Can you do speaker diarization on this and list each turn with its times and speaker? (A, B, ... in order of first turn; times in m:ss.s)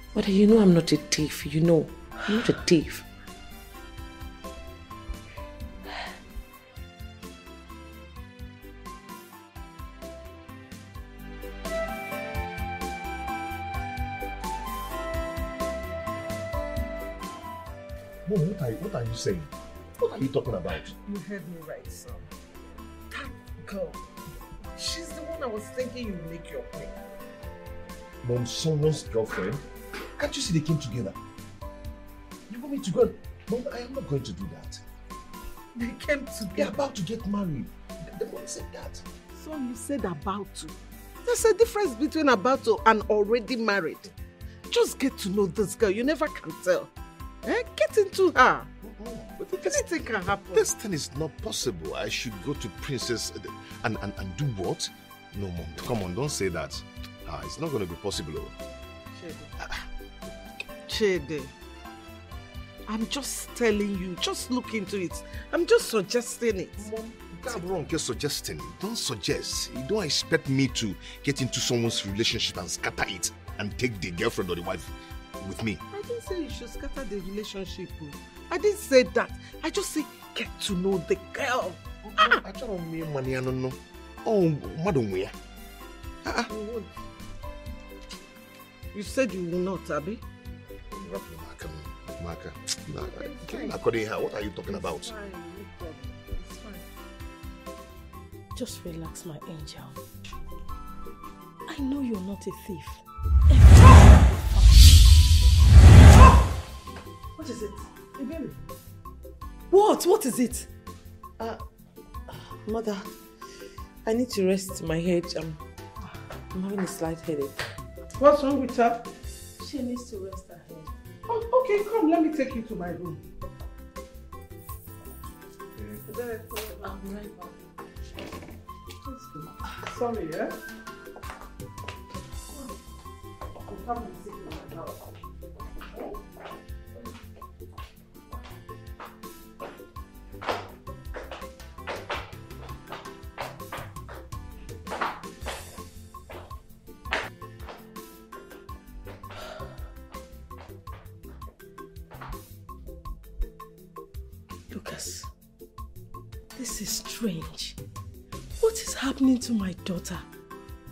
0:00.1-0:03.0 A
0:18.2-0:19.5 B
0:20.0-0:20.3 C
0:20.1-0:20.9 B
0:21.0-0:22.3 C
0:23.1-0:24.0 C
0:24.6-0:26.9 C
0:28.2-0:29.6 B
0:30.2-0:31.2 B
0:32.5-0:34.8 B
0:35.8-0:36.7 C
0:36.5-0:39.0 B
0:39.3-0:44.1 C
0:44.7-0:46.9 C
0:47.4-0:48.7 C
0:48.8-0:49.8 B
0:49.6-0:50.7 C
0:50.5-0:58.5 B
0:59.1-0:59.5 C
1:00.9-1:01.5 C
1:02.9-1:07.6 C
1:07.3-1:15.8 B
1:15.9-1:22.2 C
1:22.1-1:25.3 B
1:26.3-1:26.9 C
1:28.9-1:30.2 C
1:30.9-1:35.1 B
1:33.0-1:33.7 C
1:34.7-1:36.8 C
1:38.5-1:40.0 D
1:41.7-1:44.9 D
1:47.4-1:48.5 D
1:49.7-1:50.7 D
1:52.6-1:53.1 A
1:54.0-1:55.6 A
1:56.5-1:57.5 A
1:58.2-1:59.0 C
1:59.6-2:00.9 D
2:01.3-2:03.2 C
2:07.0-2:07.4 A
2:09.0-2:10.5 C
2:13.7-2:15.0 C
2:34.7-2:35.3 D
2:36.5-2:37.8 D
2:38.6-2:40.2 D